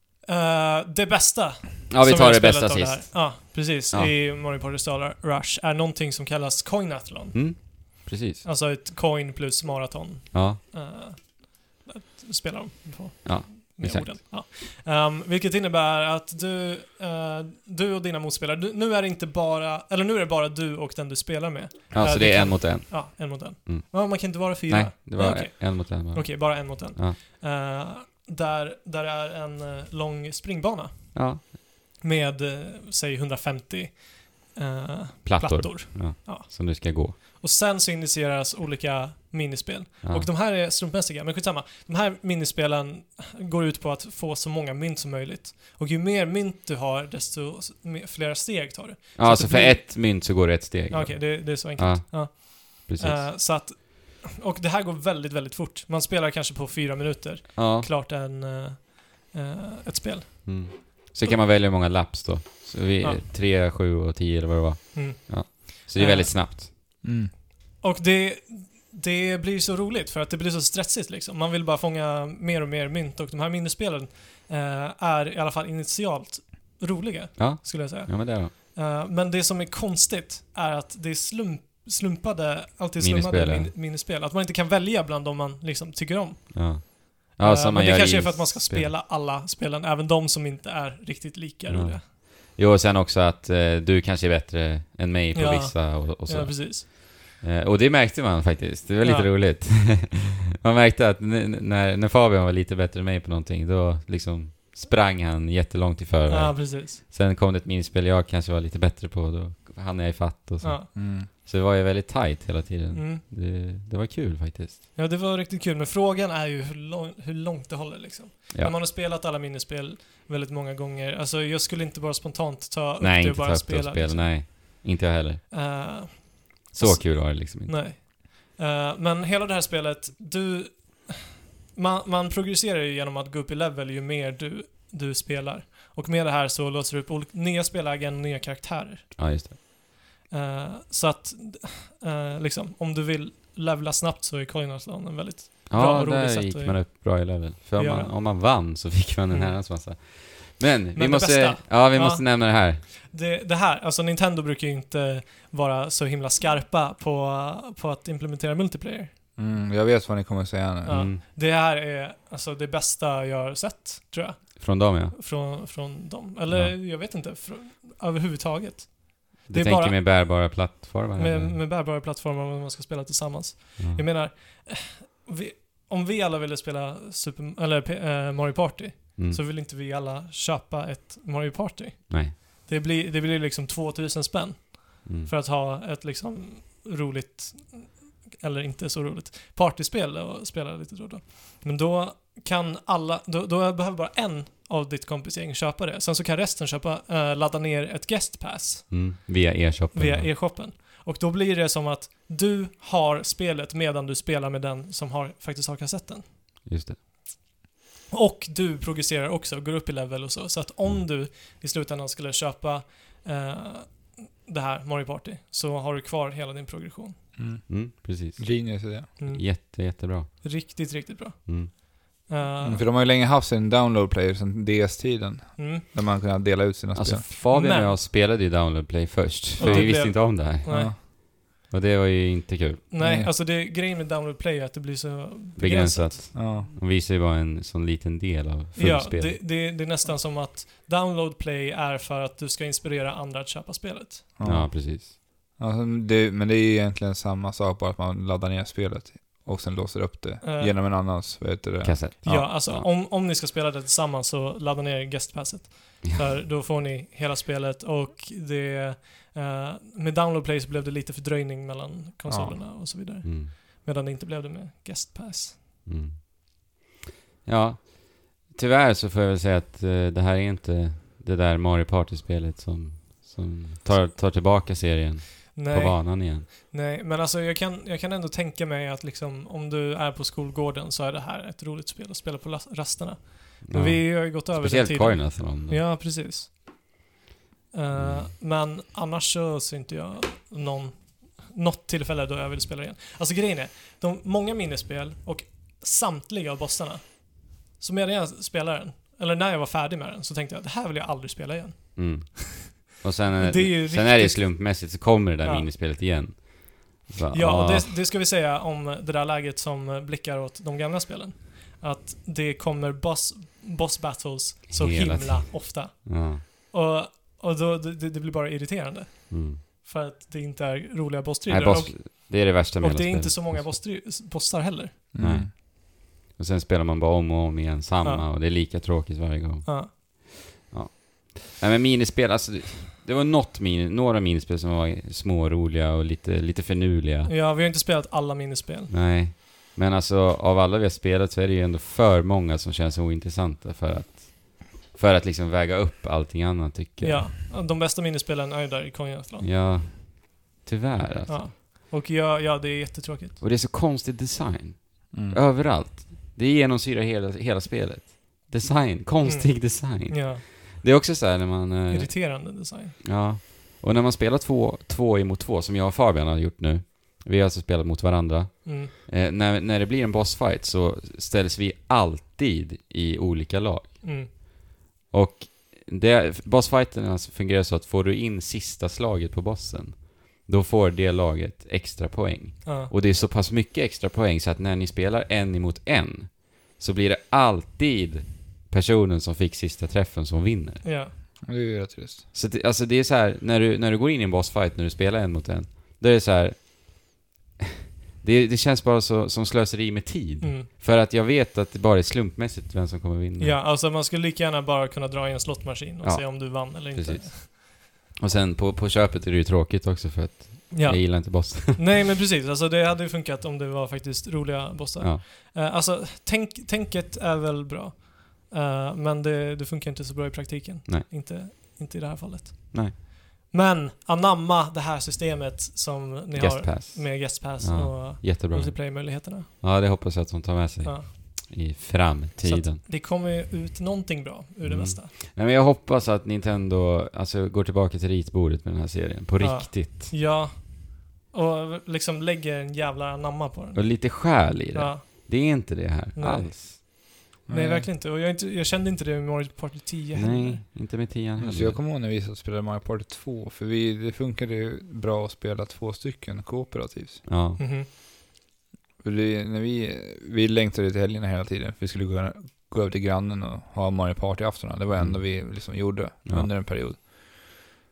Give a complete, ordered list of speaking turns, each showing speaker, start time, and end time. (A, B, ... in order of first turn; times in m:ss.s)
0:00.2-0:07.8 A
0:01.9-0:04.1 B
0:07.3-0:08.4 B
0:08.4-1:01.4 A
0:10.3-0:10.6 B
0:13.2-0:14.2 B
0:21.9-0:27.2 B
0:31.1-0:31.4 B
0:35.2-0:37.2 B
0:40.0-0:40.3 B
0:49.2-0:53.3 B
0:57.6-0:57.9 B
1:00.4-1:06.7 B
1:04.9-1:06.7 A
1:07.0-1:07.3 C
1:07.8-1:32.0 A
1:17.4-1:18.5 B
1:23.0-1:23.7 B
1:26.5-1:28.9 B
1:31.7-1:54.8 B
1:35.3-1:36.9 A
1:39.0-1:39.3 A
1:46.3-1:47.0 A
1:50.6-1:50.9 A
1:51.0-1:51.3 C
1:52.9-1:53.2 A
1:55.0-2:04.5 A
2:03.0-2:05.4 B
2:05.5-2:19.6 A
2:06.7-2:07.8 B
2:19.2-2:19.6 B
2:20.3-2:28.2 A
2:25.7-2:32.8 B
2:29.3-2:29.6 A
2:31.0-2:39.1 A
2:39.4-2:41.1 C
2:40.8-2:50.0 A
2:40.9-2:41.2 B
2:44.6-2:45.2 B
2:46.5-2:46.8 B
2:49.5-2:51.6 B
2:51.2-3:19.1 A
2:53.8-2:54.0 B
3:02.1-3:02.4 B
3:05.0-3:05.3 B
3:18.9-3:20.3 B
3:19.9-3:26.3 A
3:26.6-3:27.0 B
3:28.1-3:37.2 A
3:37.4-3:39.1 C
3:37.7-3:40.7 B
3:39.2-3:42.8 A
3:41.5-3:41.7 B
3:42.6-3:47.2 C
3:45.6-3:45.8 A
3:46.9-3:52.8 B
3:47.5-3:48.0 A
3:49.6-3:50.9 A
3:49.6-3:51.0 C
3:52.9-3:56.4 A
3:53.0-3:53.3 C
3:55.6-3:59.4 B
3:56.4-3:56.7 C
3:58.8-4:04.3 A
4:04.4-4:12.1 C
4:04.4-4:05.1 B
4:10.4-4:10.8 A
4:11.8-4:12.9 B
4:12.2-4:25.6 A
4:22.3-4:22.6 C
4:23.2-4:23.5 B
4:25.8-4:26.8 B
4:27.4-4:36.5 B
4:35.6-4:46.6 A
4:43.7-4:45.8 B
4:47.7-5:02.8 A
4:47.9-4:48.3 B
5:02.0-5:08.0 B
5:03.4-5:05.7 A
5:07.3-5:25.0 A
5:14.7-5:16.4 B
5:19.3-5:19.6 B
5:21.5-5:23.8 B
5:25.1-5:25.5 C
5:25.2-5:37.3 B
5:29.6-5:29.9 A
5:37.3-5:38.9 A
5:38.9-5:47.3 B
5:47.0-5:49.5 A
5:49.4-5:51.5 B
5:51.3-5:53.4 A
5:53.4-6:02.5 B
5:55.1-5:55.4 C
5:59.2-6:00.4 A
6:01.9-6:03.0 A
6:03.0-6:14.4 B
6:08.6-6:08.9 A
6:14.0-6:14.3 A
6:15.1-6:30.8 B
6:22.7-6:22.9 A
6:30.8-6:31.1 A
6:31.4-6:32.2 C
6:32.3-6:37.2 B
6:38.2-6:43.6 B
6:40.4-6:40.7 A
6:43.4-6:47.5 A
6:46.0-6:51.8 B
6:50.7-7:09.5 A
7:06.4-7:12.8 B
7:10.8-7:11.1 A
7:12.4-7:15.1 A
7:14.6-7:20.1 B
7:19.4-7:25.5 A
7:23.7-7:26.8 B
7:26.2-7:30.6 A
7:27.5-7:27.9 C
7:30.1-7:31.8 B
7:31.4-7:37.3 C
7:37.3-7:37.6 B
7:37.6-7:37.9 A
7:39.0-7:47.6 C
7:45.0-7:46.5 B